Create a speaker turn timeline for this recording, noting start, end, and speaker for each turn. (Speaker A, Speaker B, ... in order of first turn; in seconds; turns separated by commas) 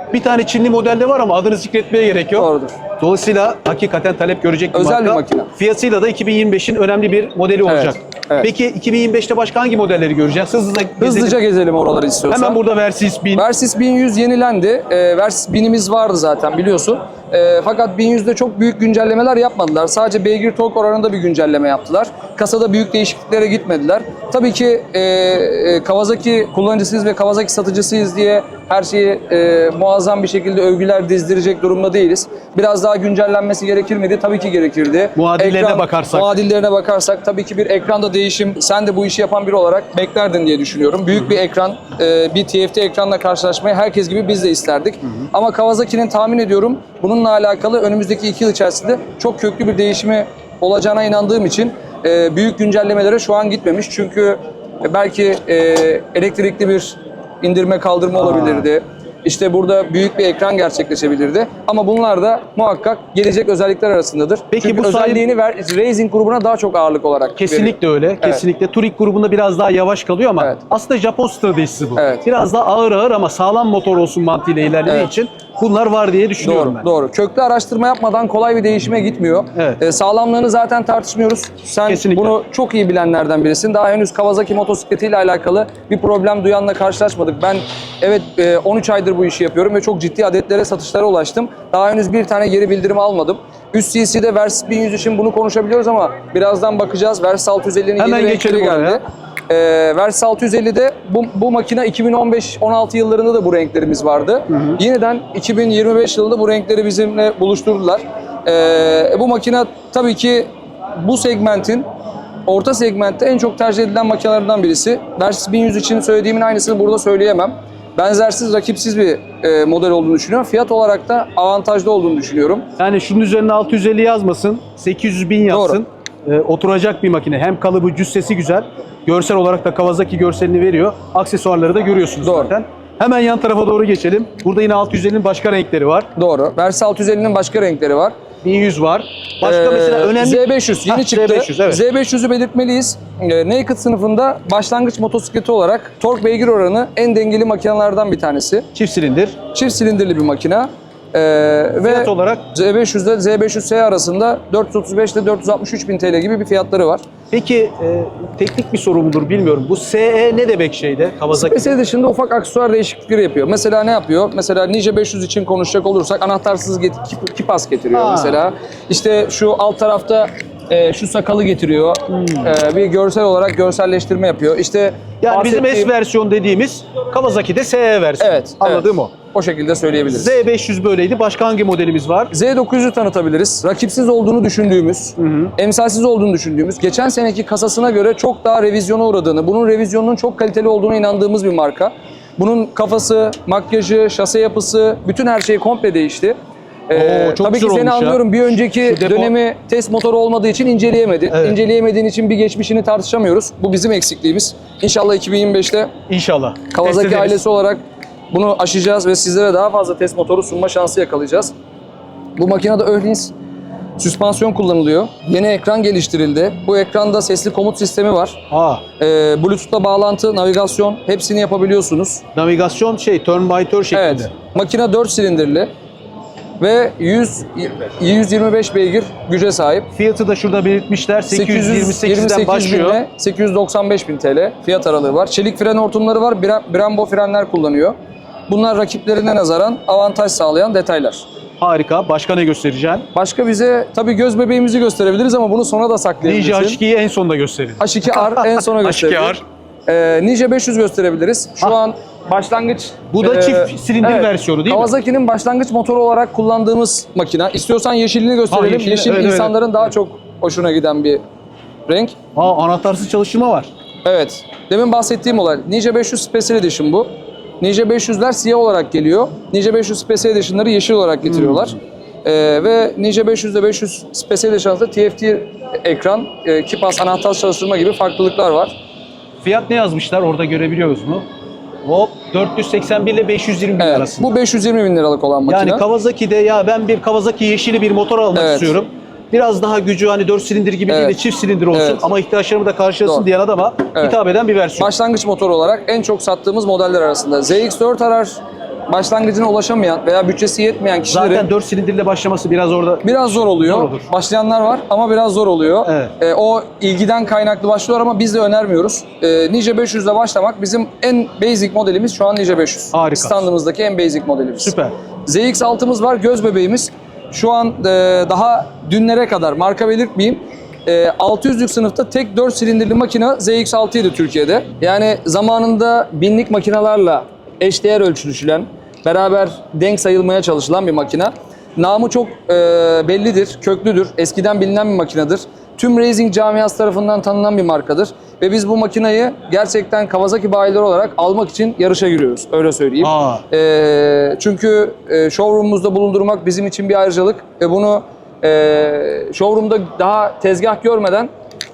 Speaker A: 0.1-11.4, Speaker B: 2.3-2.8, Speaker B: 4.7-5.5, Speaker B: 7.7-8.5, Speaker B: 11.0-12.6, Speaker A: 12.3-13.4, Speaker B: 13.3-68.4, Speaker A: 35.1-36.3, Speaker A: 58.2-58.6, Speaker A: 64.5-65.2, Speaker A: 67.4-76.8, Speaker B: 72.0-72.2, Speaker B: 74.8-75.1, Speaker B: 76.4-111.8, Speaker A: 81.9-82.4, Speaker A: 98.0-99.0, Speaker A: 104.5-104.8, Speaker B: 112.5-122.6, Speaker A: 122.8-136.1, Speaker B: 125.5-125.8, Speaker B: 132.2-132.5, Speaker B: 136.2-138.1, Speaker A: 138.4-141.8, Speaker B: 139.4-148.7, Speaker A: 148.7-149.4, Speaker B: 149.5-157.0, Speaker A: 151.8-152.4, Speaker A: 157.3-161.8, Speaker B: 161.3-175.9, Speaker A: 167.9-168.4, Speaker A: 172.1-172.5, Speaker A: 175.2-179.1, Speaker B: 178.2-180.4, Speaker A: 180.1-182.3, Speaker B: 182.3-196.3, Speaker A: 185.2-185.5, Speaker B: 196.9-205.9, Speaker A: 196.9-199.3, Speaker A: 201.3-201.6, Speaker A: 206.1-207.4, Speaker B: 206.7-207.8, Speaker B: 208.3-211.5, Speaker B: 212.4-213.3, Speaker B: 214.0-218.4, Speaker A: 218.5-218.8, Speaker B: 219.0-222.2, Speaker A: 222.3-224.3, Speaker B: 223.9-225.7, Speaker B: 226.6-229.9, Speaker A: 229.9-233.0, Speaker B: 231.3-237.9, Speaker B: 238.5-241.2, Speaker A: 241.6-243.1, Speaker B: 243.1-246.8, Speaker A: 246.2-249.4, Speaker B: 247.8-261.2, Speaker A: 253.1-254.9, Speaker A: 258.5-259.5, Speaker B: 261.9-262.1, Speaker A: 262.3-263.7, Speaker B: 264.0-267.1, Speaker B: 267.6-278.7, Speaker A: 271.2-271.7, Speaker A: 279.4-281.2, Speaker A: 281.8-284.3, Speaker B: 283.8-285.8, Speaker A: 285.5-294.9, Speaker B: 288.3-288.8, Speaker B: 290.9-291.2, Speaker B: 291.7-292.1, Speaker B: 294.8-301.5, Speaker A: 301.1-304.1, Speaker B: 303.0-314.7, Speaker A: 305.9-306.1, Speaker A: 312.9-313.5, Speaker A: 314.6-314.9, Speaker B: 315.2-351.3, Speaker A: 343.0-343.4